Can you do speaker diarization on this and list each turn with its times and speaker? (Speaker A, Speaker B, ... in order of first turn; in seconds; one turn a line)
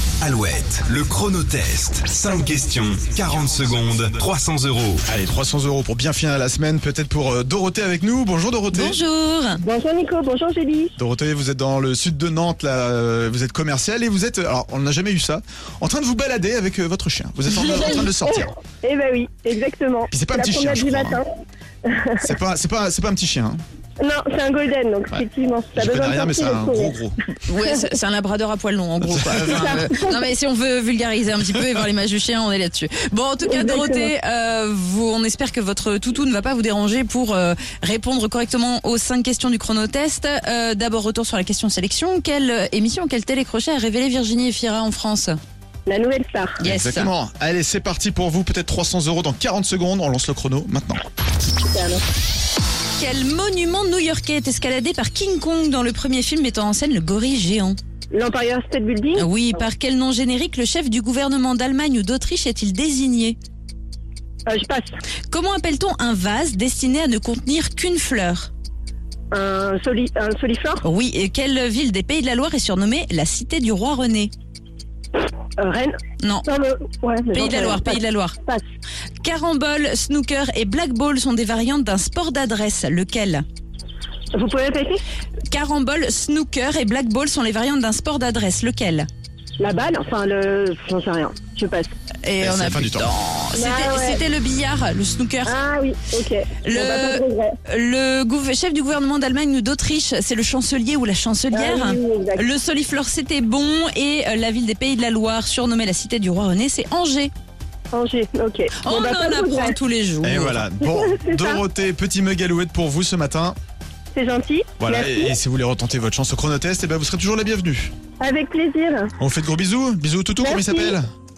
Speaker A: 0.2-5.0
Speaker B: 5.0-9.0
Speaker C: 8.7-9.6
Speaker D: 9.6-10.9
Speaker B: 11.0-18.5
Speaker D: 17.5-21.3
Speaker B: 20.1-21.2
Speaker D: 21.9-22.3
Speaker B: 22.2-23.6
Speaker D: 24.0-27.0
Speaker B: 25.8-27.1
Speaker C: 27.4-45.4
Speaker B: 29.1-29.7
Speaker D: 29.5-30.2
Speaker D: 33.4-34.1
Speaker D: 45.9-46.6
Speaker C: 46.6-47.1
Speaker B: 46.6-51.0
Speaker D: 51.6-52.0
Speaker C: 53.0-57.8
Speaker D: 58.1-59.3
Speaker C: 59.1-63.4
Speaker D: 64.5-64.9
Speaker C: 65.3-68.5
Speaker D: 69.3-70.8
Speaker C: 70.8-74.3
Speaker D: 75.6-78.6
Speaker C: 76.2-76.5
Speaker C: 77.3-78.3
Speaker C: 79.2-83.4
Speaker D: 84.3-85.0
Speaker C: 85.5-89.1
Speaker D: 89.6-91.9
Speaker C: 92.2-95.5
Speaker B: 92.4-93.1
Speaker D: 93.5-94.2
Speaker D: 95.4-97.6
Speaker C: 96.6-107.3
Speaker D: 101.5-102.4
Speaker D: 107.9-109.8
Speaker C: 108.8-110.6
Speaker B: 110.2-113.5
Speaker D: 110.8-111.6
Speaker D: 114.1-115.3
Speaker B: 114.8-117.9
Speaker D: 118.2-119.1
Speaker B: 119.2-121.1
Speaker D: 120.4-121.0